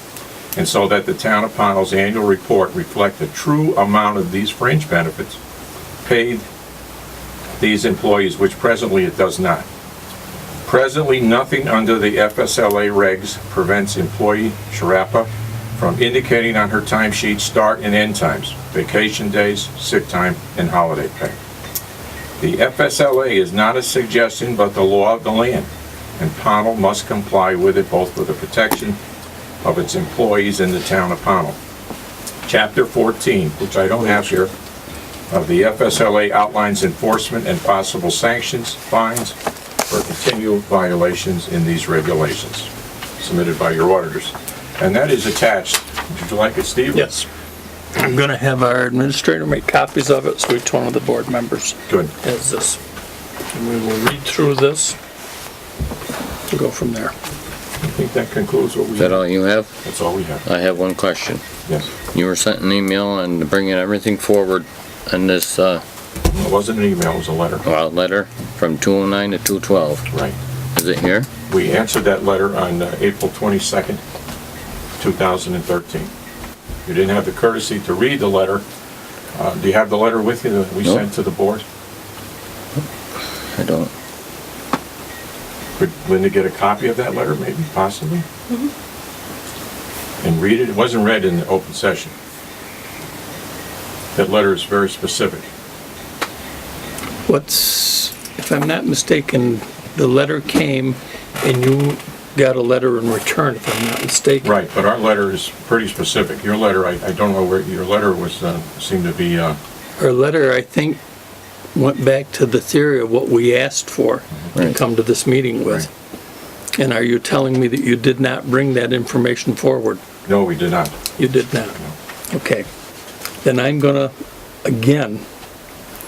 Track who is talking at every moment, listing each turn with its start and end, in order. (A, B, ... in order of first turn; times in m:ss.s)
0:00.6-0:05.4 A
0:06.0-0:06.5 A
0:07.6-0:09.7 A
0:10.6-0:21.4 A
0:22.4-0:29.0 A
0:29.6-0:31.6 A
0:32.5-0:34.5 A
0:35.3-0:39.4 A
0:39.9-0:47.2 A
0:46.9-0:47.3 B
0:48.0-0:52.8 B
0:51.9-0:52.1 A
0:53.5-0:55.0 B
0:56.5-0:57.1 B
0:57.8-0:59.3 A
0:59.0-0:59.7 C
0:59.8-1:00.4 A
1:00.4-1:01.4 C
1:01.7-1:01.9 A
1:02.1-1:05.8 C
1:06.3-1:07.7 A
1:07.6-1:10.1 C
1:10.1-1:10.4 A
1:10.8-1:11.3 C
1:11.5-1:14.0 A
1:15.0-1:16.1 A
1:16.9-1:18.6 A
1:19.3-1:21.6 A
1:23.6-1:23.9 C
1:25.8-1:28.2 A
1:30.2-1:32.1 A
1:34.1-1:35.5 A
1:37.3-1:44.5 B
1:44.4-1:49.6 A
1:50.0-1:51.0 B
1:51.8-1:55.9 B
1:56.8-2:00.0 B
2:00.3-2:01.0 A
2:01.2-2:01.8 B
2:02.3-2:02.7 B
2:03.4-2:04.1 B
2:04.6-2:05.2 B